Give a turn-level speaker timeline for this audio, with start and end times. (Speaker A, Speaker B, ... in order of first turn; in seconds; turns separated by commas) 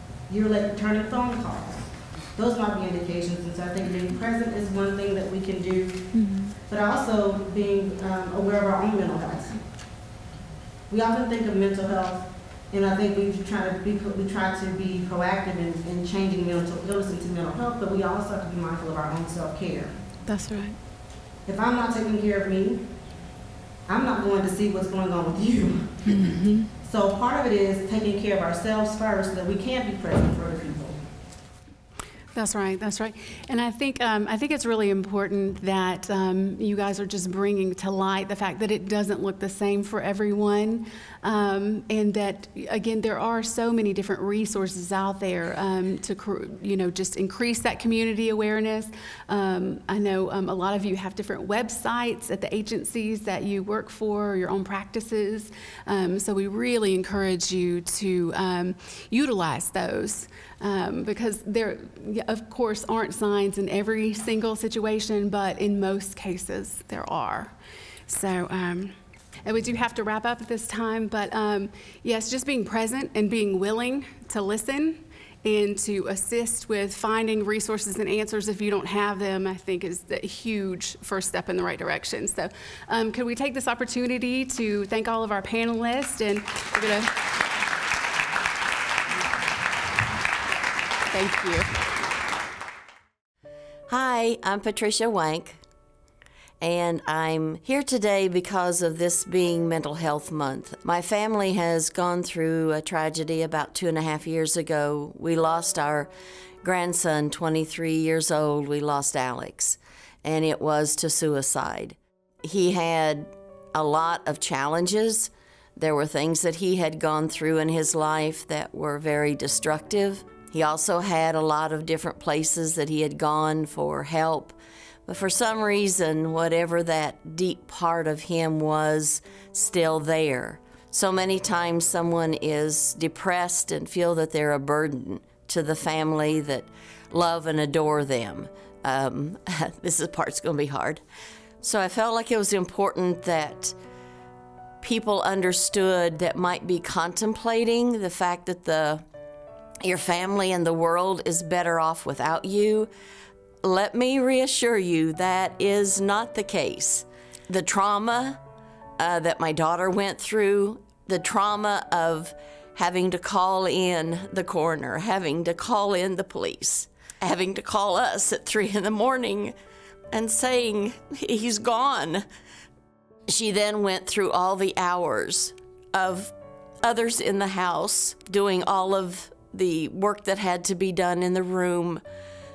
Speaker A: 0.3-6.0, Speaker B: 6.1-6.5, Speaker A: 6.7-9.6, Speaker A: 10.9-19.9, Speaker B: 20.2-20.8, Speaker A: 21.5-22.8, Speaker A: 23.9-26.1, Speaker B: 26.1-26.7, Speaker A: 26.8-31.0, Speaker B: 32.3-67.6, Speaker B: 68.1-87.2, Speaker B: 91.1-91.7, Speaker C: 93.9-95.6, Speaker C: 96.6-106.1, Speaker C: 106.6-141.0, Speaker C: 141.6-143.8, Speaker C: 144.8-149.1, Speaker C: 149.8-152.9, Speaker C: 153.6-158.4, Speaker C: 159.0-169.5, Speaker C: 170.1-172.2, Speaker C: 173.3-176.3, Speaker C: 176.8-182.0